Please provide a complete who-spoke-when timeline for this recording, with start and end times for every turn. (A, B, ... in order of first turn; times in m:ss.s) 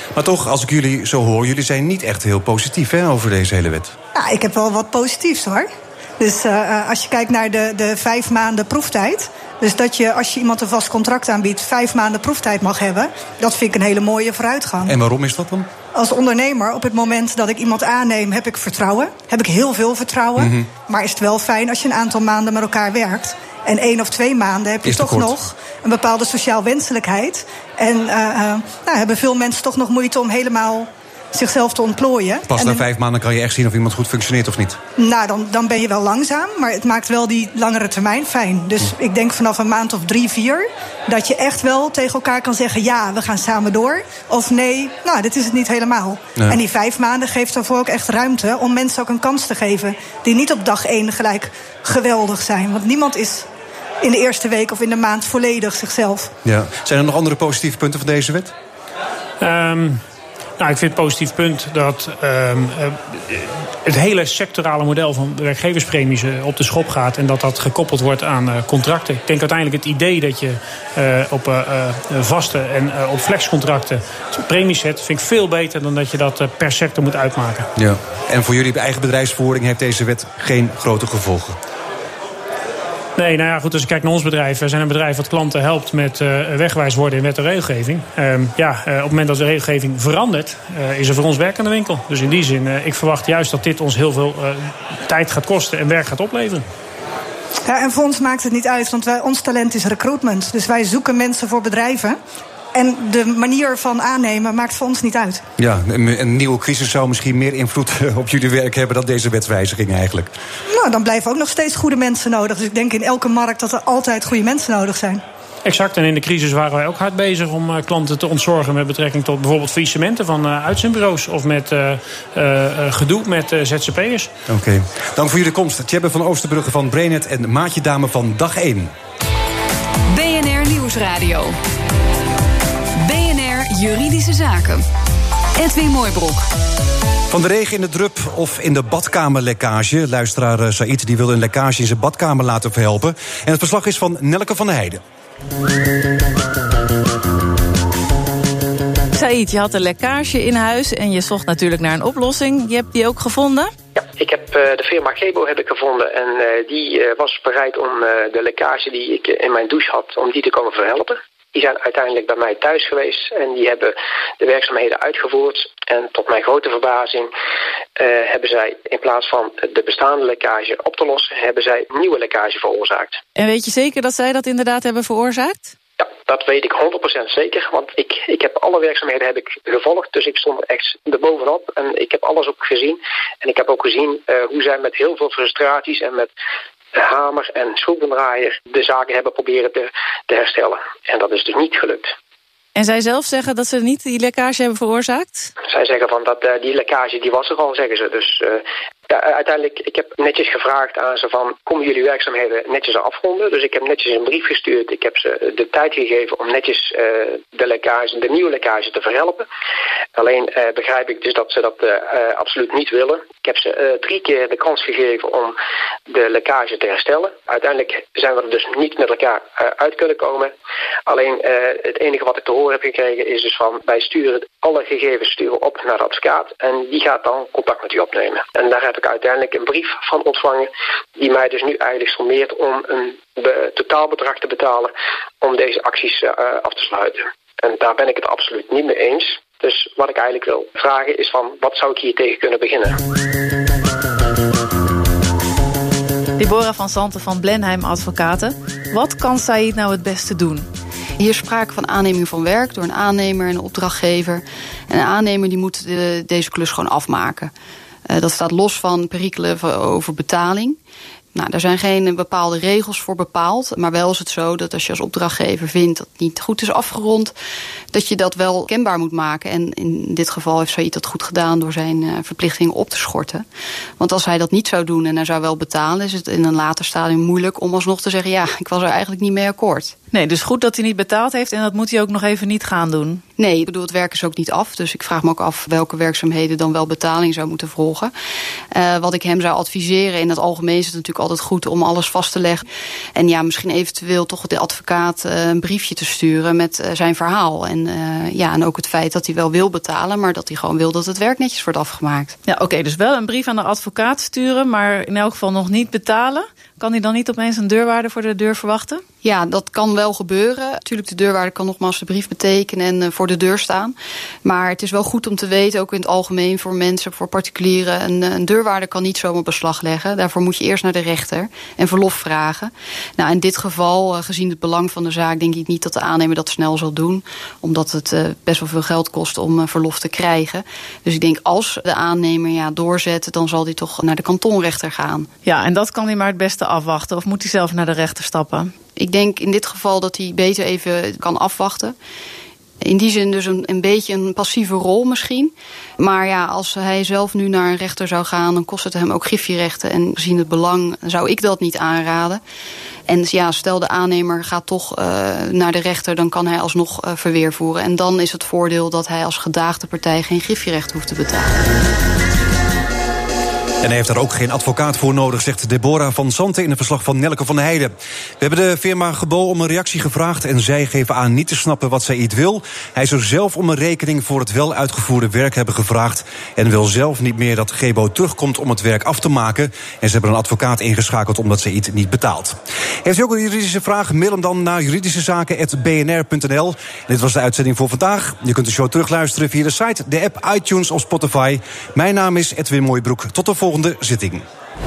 0:00.1-0:03.9 A
0:04.1-0:05.7 B
0:06.2-0:15.0 B
0:14.8-0:15.7 A
0:15.9-0:32.8 B
0:20.4-0:20.7 A
0:24.8-0:25.3 A
0:32.5-0:34.8 A
0:35.0-0:53.4 B
0:54.0-0:56.3 B
0:56.4-0:58.5 A
0:59.4-1:00.0 C
1:00.6-1:17.7 C
1:17.8-1:21.6 A
1:23.2-1:36.6 C
1:37.6-1:42.2 B
1:42.7-1:45.4 B
1:45.6-1:50.3 A
1:50.7-1:55.2 B
1:55.6-2:04.3 C
2:04.5-2:08.9 A
2:10.1-2:11.6 D
2:13.0-2:14.8 D
2:15.6-2:16.5 D
2:17.3-2:25.0 A
2:29.1-2:33.7 E
2:34.0-2:47.3 F
2:48.0-2:53.2 F
2:53.3-2:55.7 E
2:56.0-3:06.3 F
3:06.9-3:12.1 F
3:12.7-3:15.5 E
3:15.7-3:29.5 F
3:30.1-3:35.6 F
3:36.1-3:40.5 F
3:41.1-4:03.0 F
4:06.4-4:10.7 E
4:11.2-4:17.5 G
4:18.1-4:20.8 G
4:21.3-4:27.3 G
4:27.9-4:33.4 G
4:34.0-4:40.0 G
4:40.1-4:43.2 E
4:43.4-4:48.1 G
4:48.7-4:52.6 G
4:53.2-5:02.4 G
5:02.5-5:09.0 E
5:09.2-5:35.3 G
5:35.4-5:38.7 E
5:39.0-5:41.9 G
5:42.8-5:52.4 G
5:53.1-6:01.7 G
6:03.8-6:34.4 A